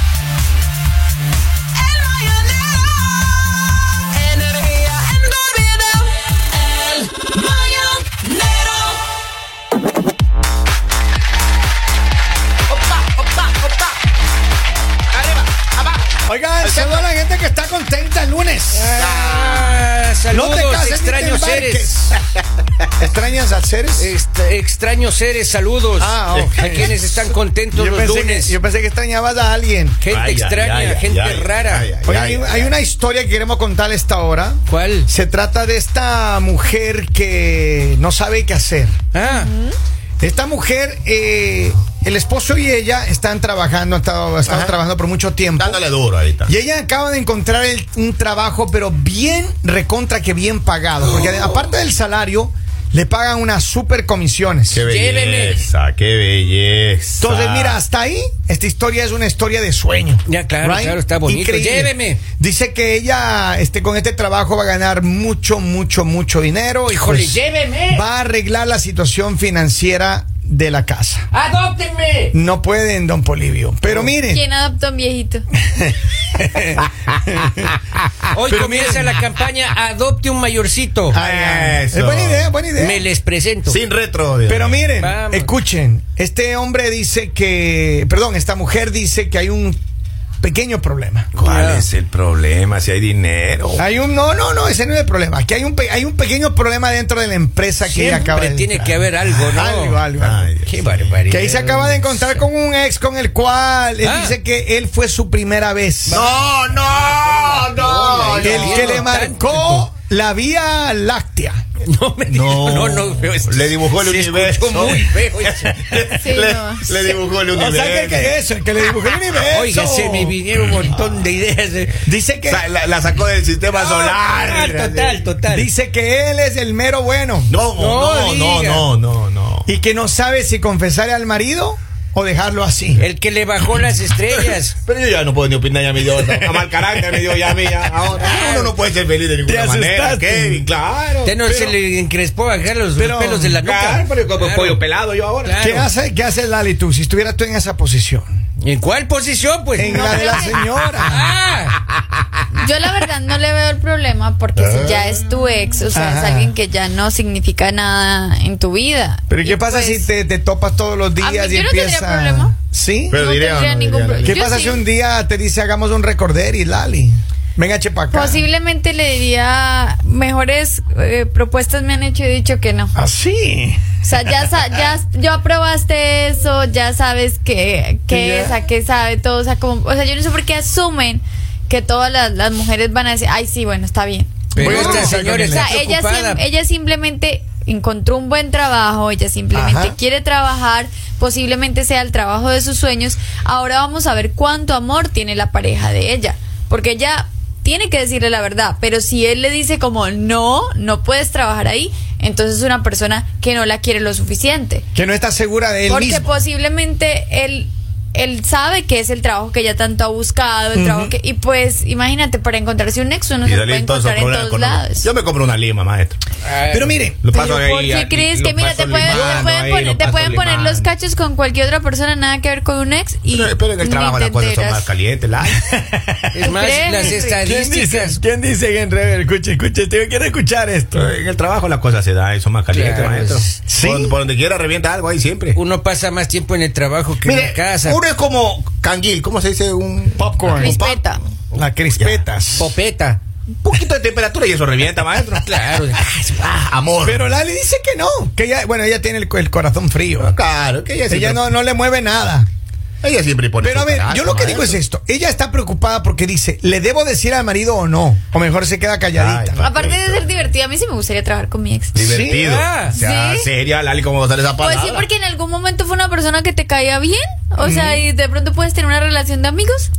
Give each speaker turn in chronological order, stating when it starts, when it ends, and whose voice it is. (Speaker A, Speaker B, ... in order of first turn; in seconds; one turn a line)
Speaker A: 1.9-2.8
Speaker A: 4.2-6.1
Speaker A: 6.8-8.5
Speaker B: 12.7-13.9
Speaker B: 15.1-17.0
Speaker C: 16.2-19.0
Speaker A: 18.7-21.9
Speaker B: 18.9-19.8
Speaker C: 20.3-22.2
Speaker C: 23.0-24.1
Speaker A: 24.0-28.6
Speaker C: 26.0-27.0
Speaker B: 26.3-26.9
Speaker C: 27.7-30.0
Speaker A: 30.0-31.9
Speaker B: 30.1-32.7
Speaker C: 32.0-38.9
Speaker A: 34.7-35.1
Speaker A: 39.1-39.5
Speaker D: 39.2-39.8
Speaker C: 40.2-45.8
Speaker B: 44.5-44.7
Speaker B: 45.6-46.5
Speaker C: 46.4-54.8
Speaker B: 54.7-57.8
Speaker A: 54.8-55.6
Speaker C: 57.2-71.3
Speaker A: 60.2-62.2
Speaker A: 66.9-68.0
Speaker A: 71.3-72.3
Speaker C: 72.3-74.4
Speaker D: 73.9-75.4
Speaker C: 75.6-77.7
Speaker A: 78.3-81.2
Speaker C: 78.5-79.2
Speaker C: 81.1-83.0
Speaker B: 81.2-82.5
Speaker A: 82.7-83.8
Speaker B: 83.7-84.8
Speaker C: 84.5-89.8
Speaker A: 85.0-85.5
Speaker C: 90.4-91.3
Speaker B: 91.3-93.8
Speaker A: 91.4-91.9
Speaker C: 93.8-100.5
Speaker A: 97.8-100.0
Speaker B: 100.2-101.1
Speaker A: 100.6-102.4
Speaker C: 101.3-106.2
Speaker A: 104.0-104.3
Speaker A: 106.1-109.9
Speaker B: 106.1-109.1
Speaker C: 108.4-111.6
Speaker A: 111.8-115.9
Speaker B: 112.3-118.3
Speaker D: 116.1-117.2
Speaker C: 117.5-120.4
Speaker A: 119.5-122.0
Speaker C: 122.0-122.6
Speaker B: 122.5-125.2
Speaker A: 123.7-125.7
Speaker C: 125.5-127.5
Speaker B: 127.5-129.7
Speaker A: 127.8-128.9
Speaker C: 129.7-133.1
Speaker A: 133.0-134.8
Speaker B: 134.8-141.3
Speaker C: 136.2-137.3
Speaker C: 138.2-138.4
Speaker A: 138.2-138.7
Speaker C: 139.4-140.6
Speaker A: 141.2-144.8
Speaker C: 141.4-141.8
Speaker C: 142.9-143.6
Speaker B: 143.6-145.6
Speaker A: 145.4-145.9
Speaker C: 145.6-148.3
Speaker A: 148.6-150.1
Speaker C: 149.8-151.3
Speaker D: 149.8-150.7
Speaker A: 151.0-151.8
Speaker D: 152.6-160.1
Speaker B: 154.6-155.2
Speaker C: 155.9-156.5
Speaker C: 159.3-163.2
Speaker D: 161.2-162.5
Speaker B: 163.1-164.3
Speaker D: 163.1-164.8
Speaker C: 164.2-168.4
Speaker D: 168.1-172.9
Speaker C: 172.9-174.5
Speaker D: 174.0-204.8
Speaker C: 178.1-178.6
Speaker A: 184.5-186.4
Speaker C: 184.6-185.7
Speaker C: 189.5-189.9
Speaker C: 204.9-206.4
Speaker D: 205.9-215.1
Speaker C: 210.7-211.1
Speaker B: 213.4-216.2
Speaker A: 216.4-217.0
Speaker C: 216.7-217.2
Speaker B: 217.2-220.9
Speaker D: 217.3-224.9
Speaker B: 223.3-225.6
Speaker C: 225.6-226.5
Speaker A: 226.3-228.2
Speaker D: 226.4-227.4
Speaker C: 227.1-231.1
Speaker B: 230.9-235.6
Speaker A: 232.7-233.6
Speaker C: 233.7-234.2
Speaker A: 235.5-238.0
Speaker B: 237.2-241.0
Speaker C: 240.2-240.8
Speaker D: 240.5-241.2
Speaker C: 241.5-242.7
Speaker B: 242.0-242.2
Speaker A: 242.5-243.2
Speaker B: 243.6-245.6
Speaker A: 245.4-246.4
Speaker B: 246.3-247.2
Speaker C: 247.0-250.3
Speaker B: 250.2-251.5
Speaker C: 251.1-252.5
Speaker B: 253.0-254.8
Speaker C: 253.6-259.7
Speaker B: 259.1-260.2
Speaker D: 259.6-262.2
Speaker B: 261.9-265.0
Speaker C: 261.9-262.4
Speaker A: 262.4-262.9
Speaker D: 262.9-263.5
Speaker D: 264.6-269.9
Speaker C: 267.6-268.0